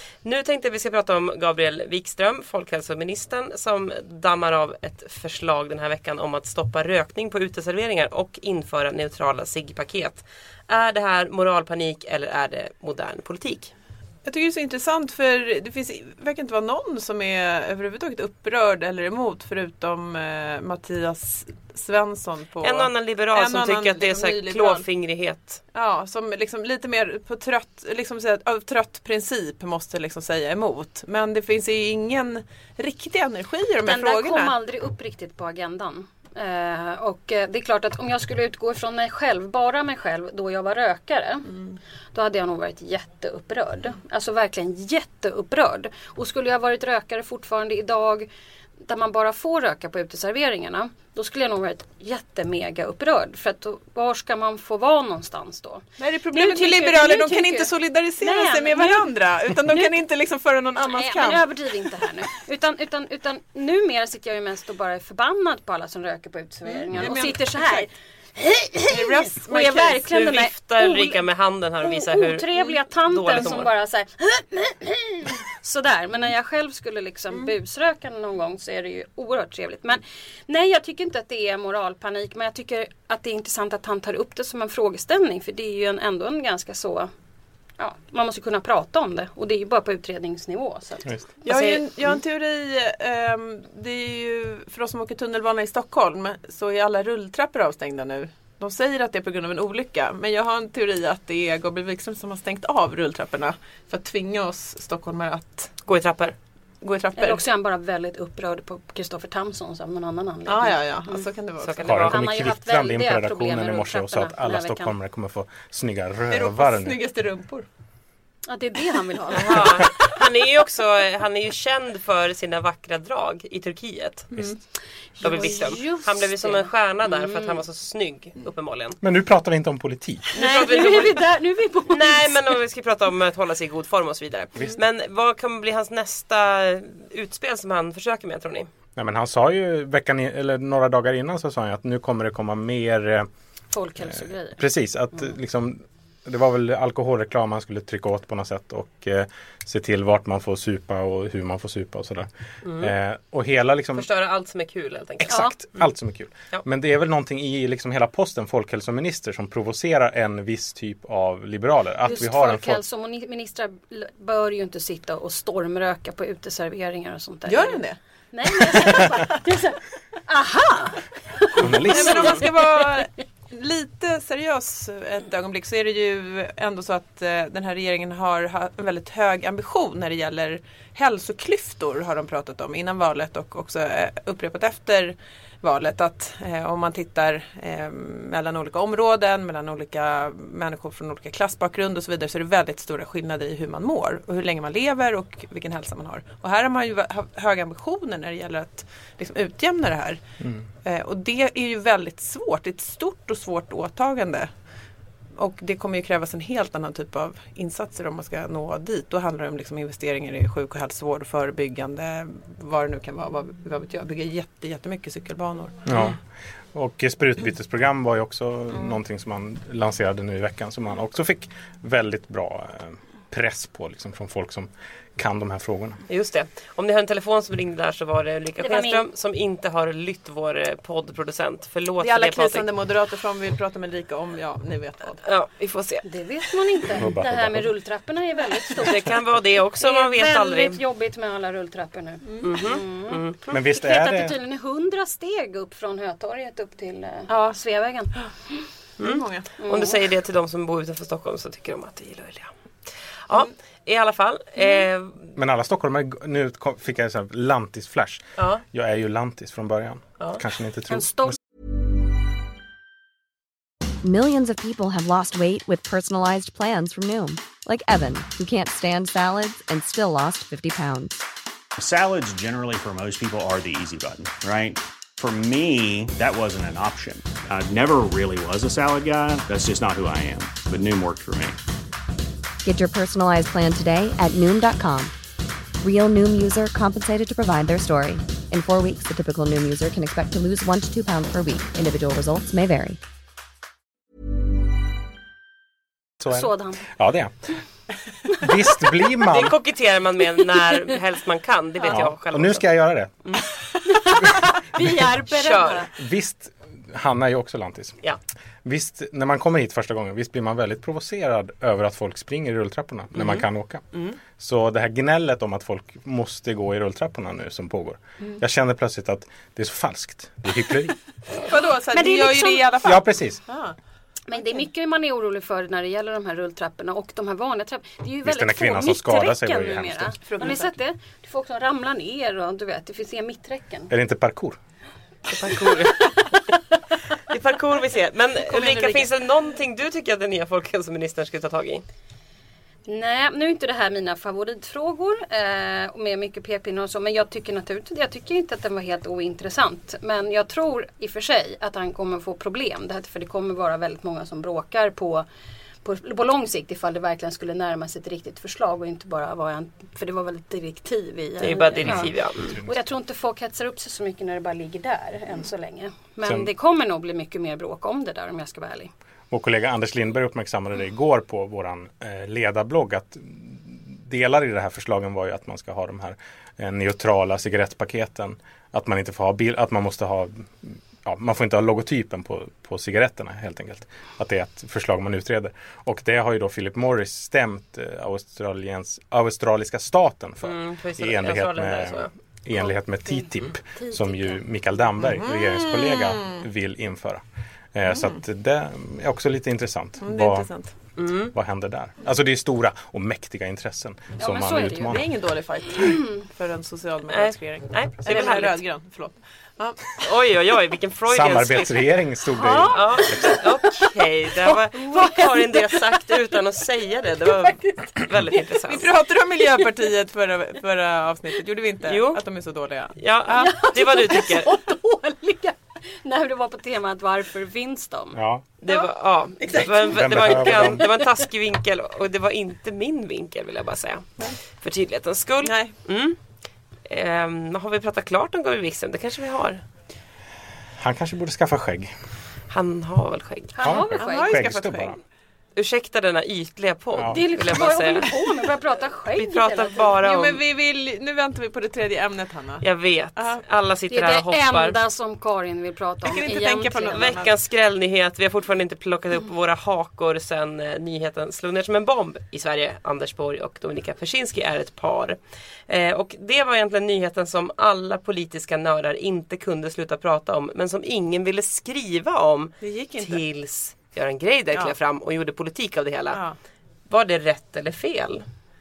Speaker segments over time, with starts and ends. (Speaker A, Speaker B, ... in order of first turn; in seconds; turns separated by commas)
Speaker A: 0.2-13.7, Speaker B: 14.2-24.8, Speaker A: 22.6-25.6, Speaker B: 25.7-34.5, Speaker C: 33.8-41.5, Speaker C: 42.1-48.3, Speaker C: 48.8-59.1, Speaker B: 56.0-61.5, Speaker C: 59.6-59.9, Speaker C: 60.8-71.2, Speaker B: 66.7-67.9, Speaker B: 68.9-70.0, Speaker A: 70.1-73.7, Speaker C: 71.8-87.1, Speaker C: 87.8-91.1, Speaker A: 91.5-92.1, Speaker B: 91.5-105.7, Speaker A: 105.8-106.3, Speaker B: 106.8-107.4, Speaker C: 107.2-111.2, Speaker B: 110.5-112.2, Speaker A: 111.6-112.1, Speaker D: 111.8-117.0, Speaker C: 112.1-114.9, Speaker B: 116.3-117.7, Speaker C: 118.5-119.9, Speaker A: 119.3-124.3, Speaker C: 125.2-127.6, Speaker A: 125.2-129.0, Speaker D: 129.0-130.3, Speaker A: 130.3-131.2, Speaker C: 130.3-132.5, Speaker A: 131.9-138.7, Speaker D: 138.9-143.3, Speaker C: 143.7-144.6, Speaker D: 144.1-154.1, Speaker A: 152.6-152.9, Speaker A: 153.9-155.8, Speaker C: 155.3-155.5, Speaker D: 155.3-162.8, Speaker C: 162.0-173.0, Speaker B: 167.5-168.0, Speaker D: 171.6-172.3, Speaker B: 171.9-200.2, Speaker A: 172.0-172.3, Speaker B: 200.8-204.5, Speaker B: 205.4-215.8, Speaker D: 215.8-216.2, Speaker D: 216.7-226.0, Speaker A: 226.1-232.7, Speaker C: 228.6-229.0, Speaker B: 232.0-235.2, Speaker A: 235.2-236.0, Speaker C: 236.0-239.2, Speaker D: 236.9-237.7, Speaker A: 238.8-240.8, Speaker C: 239.7-248.1, Speaker B: 242.3-242.5, Speaker A: 242.4-243.6, Speaker D: 243.5-244.3, Speaker A: 249.0-252.5, Speaker B: 249.0-249.5, Speaker C: 249.6-250.0, Speaker A: 253.3-255.3, Speaker D: 255.3-261.4, Speaker A: 258.4-258.6, Speaker C: 260.9-261.4, Speaker E: 264.0-271.2, Speaker F: 271.8-281.6, Speaker E: 282.6-285.1, Speaker E: 285.8-293.0, Speaker D: 296.2-297.5, Speaker C: 296.3-296.8, Speaker D: 298.4-299.6, Speaker A: 299.3-302.7, Speaker D: 301.9-303.1, Speaker C: 303.9-305.9, Speaker A: 305.3-305.9, Speaker D: 305.9-308.0, Speaker D: 308.6-313.8, Speaker A: 313.1-314.2, Speaker D: 314.4-320.9, Speaker B: 321.4-323.8, Speaker C: 321.9-322.9, Speaker D: 322.8-323.4, Speaker C: 324.3-333.9, Speaker D: 328.2-330.2, Speaker B: 330.2-330.7, Speaker D: 333.9-334.6, Speaker A: 335.3-336.4, Speaker A: 337.3-341.8, Speaker B: 338.4-339.1, Speaker C: 342.9-355.2, Speaker C: 355.8-368.9, Speaker A: 361.4-362.6, Speaker D: 366.2-366.5, Speaker D: 369.3-400.5, Speaker A: 390.4-392.1, Speaker C: 393.9-394.4, Speaker B: 395.1-396.4, Speaker B: 397.9-398.1, Speaker B: 400.0-400.7, Speaker A: 400.9-401.3, Speaker D: 401.3-405.1, Speaker C: 404.2-405.0, Speaker B: 404.8-410.0, Speaker A: 407.1-408.6, Speaker A: 410.0-411.9, Speaker D: 411.1-413.4, Speaker C: 412.3-413.9, Speaker A: 412.7-418.9, Speaker C: 414.5-416.2, Speaker C: 417.2-418.0, Speaker B: 418.7-422.9, Speaker A: 421.8-422.2, Speaker A: 422.9-424.5, Speaker C: 423.3-428.2, Speaker D: 428.1-428.4, Speaker A: 428.6-436.2, Speaker B: 429.4-430.9, Speaker D: 429.9-430.8, Speaker B: 435.4-435.7, Speaker A: 436.9-439.6, Speaker D: 440.8-441.9, Speaker A: 442.5-443.6, Speaker C: 443.5-444.4, Speaker D: 443.6-445.0, Speaker B: 444.0-445.0, Speaker A: 445.6-448.1, Speaker D: 446.9-447.2, Speaker C: 447.0-449.9, Speaker A: 449.1-450.4, Speaker B: 450.0-452.6, Speaker A: 452.6-454.8, Speaker C: 453.9-457.1, Speaker B: 456.0-457.3, Speaker A: 456.9-476.2, Speaker B: 472.6-473.2, Speaker A: 476.9-478.2